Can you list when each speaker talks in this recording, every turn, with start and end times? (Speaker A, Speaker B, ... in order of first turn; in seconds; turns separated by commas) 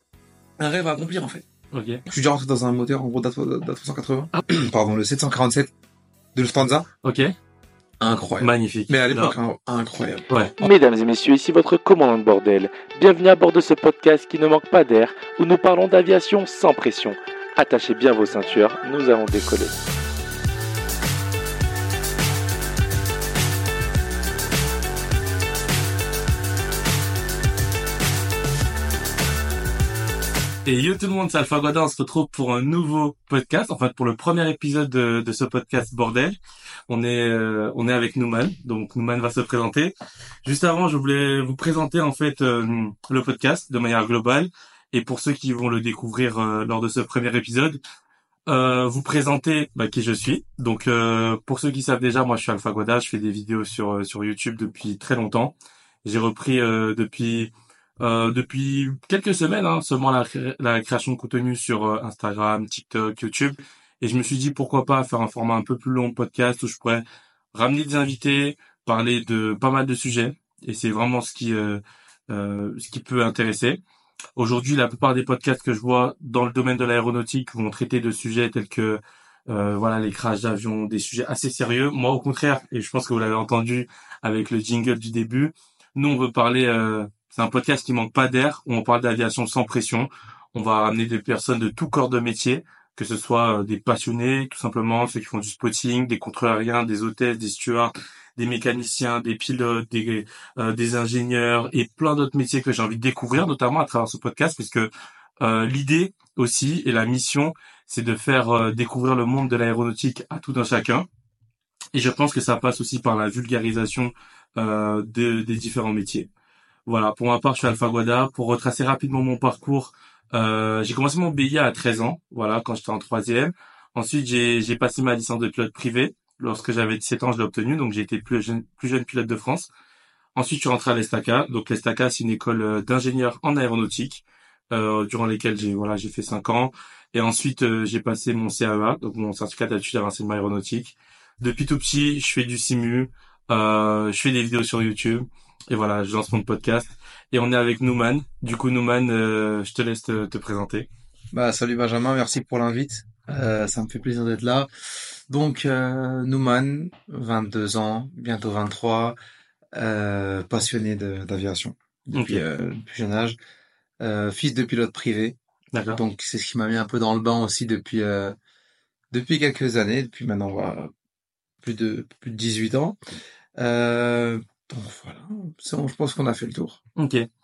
Speaker A: 0.6-1.4, Speaker B: 1.7-2.0, Speaker A: 2.1-5.7, Speaker A: 6.3-6.9, Speaker B: 7.0-7.3, Speaker A: 8.0-10.3, Speaker B: 8.4-9.3, Speaker B: 10.3-10.6, Speaker C: 10.6-19.7, Speaker B: 30.6-36.4, Speaker B: 36.9-39.9, Speaker B: 40.4-47.8, Speaker B: 48.5-55.5, Speaker B: 56.0-73.8, Speaker B: 74.4-104.9, Speaker B: 105.4-111.0, Speaker B: 111.9-116.3, Speaker B: 116.9-129.7, Speaker B: 130.3-150.9, Speaker A: 151.3-159.2, Speaker A: 159.7-163.3, Speaker B: 162.1-162.4, Speaker A: 164.0-165.3, Speaker B: 165.7-166.0, Speaker A: 165.9-168.3, Speaker A: 169.1-170.9, Speaker A: 171.6-173.0, Speaker A: 173.6-176.8, Speaker B: 176.9-177.3